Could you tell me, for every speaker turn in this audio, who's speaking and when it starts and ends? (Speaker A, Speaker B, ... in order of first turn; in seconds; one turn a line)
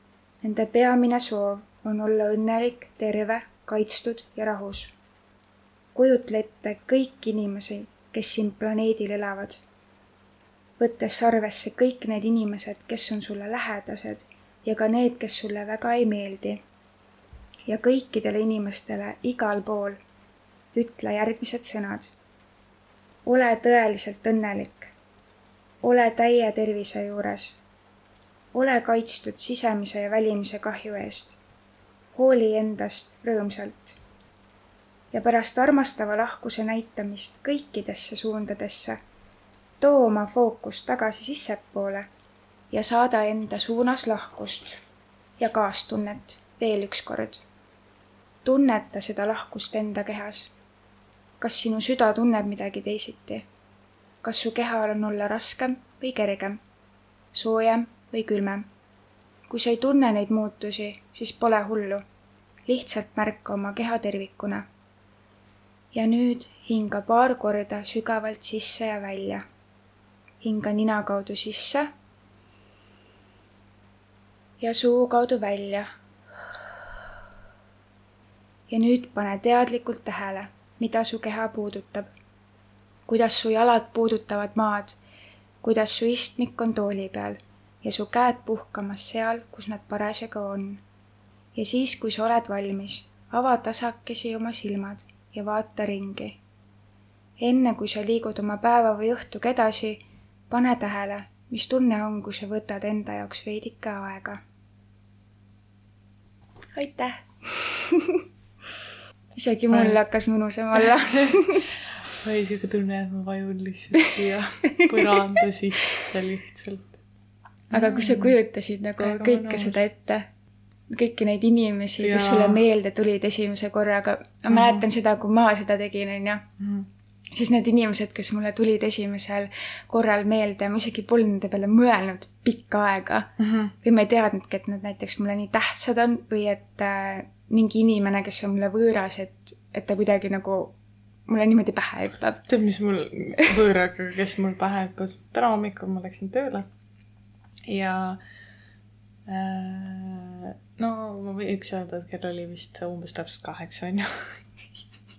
Speaker A: 0.4-4.9
Speaker A: 5.9-9.6
Speaker A: 10.8-16.6
Speaker A: 17.7-20.0
Speaker A: 20.7-22.1
Speaker A: 23.2-24.9
Speaker A: 25.8-27.6
Speaker A: 28.5-31.4
Speaker A: 32.1-34.0
Speaker A: 35.1-39.0
Speaker A: 39.8-42.1
Speaker A: 42.7-44.8
Speaker A: 45.4-47.4
Speaker A: 48.4-50.5
Speaker A: 51.4-53.5
Speaker A: 54.2-56.6
Speaker A: 57.3-58.7
Speaker A: 59.5-62.0
Speaker A: 62.7-64.6
Speaker A: 65.9-69.4
Speaker A: 70.4-71.9
Speaker A: 74.6-75.9
Speaker A: 78.7-82.1
Speaker A: 83.1-85.0
Speaker A: 85.6-90.8
Speaker A: 91.5-96.4
Speaker A: 97.4-104.4
Speaker A: 106.8-108.2
Speaker A: 109.3-111.7
Speaker B: 109.7-110.0
Speaker B: 110.8-111.5
Speaker B: 112.0-117.0
Speaker A: 114.8-115.2
Speaker B: 117.7-118.3
Speaker A: 117.7-120.3
Speaker B: 119.0-119.8
Speaker A: 120.9-126.5
Speaker B: 122.0-122.6
Speaker B: 124.5-124.8
Speaker B: 126.6-126.9
Speaker A: 127.3-140.7
Speaker B: 133.4-133.7
Speaker A: 141.3-142.5
Speaker B: 142.5-146.7
Speaker B: 147.7-148.2
Speaker B: 149.3-154.3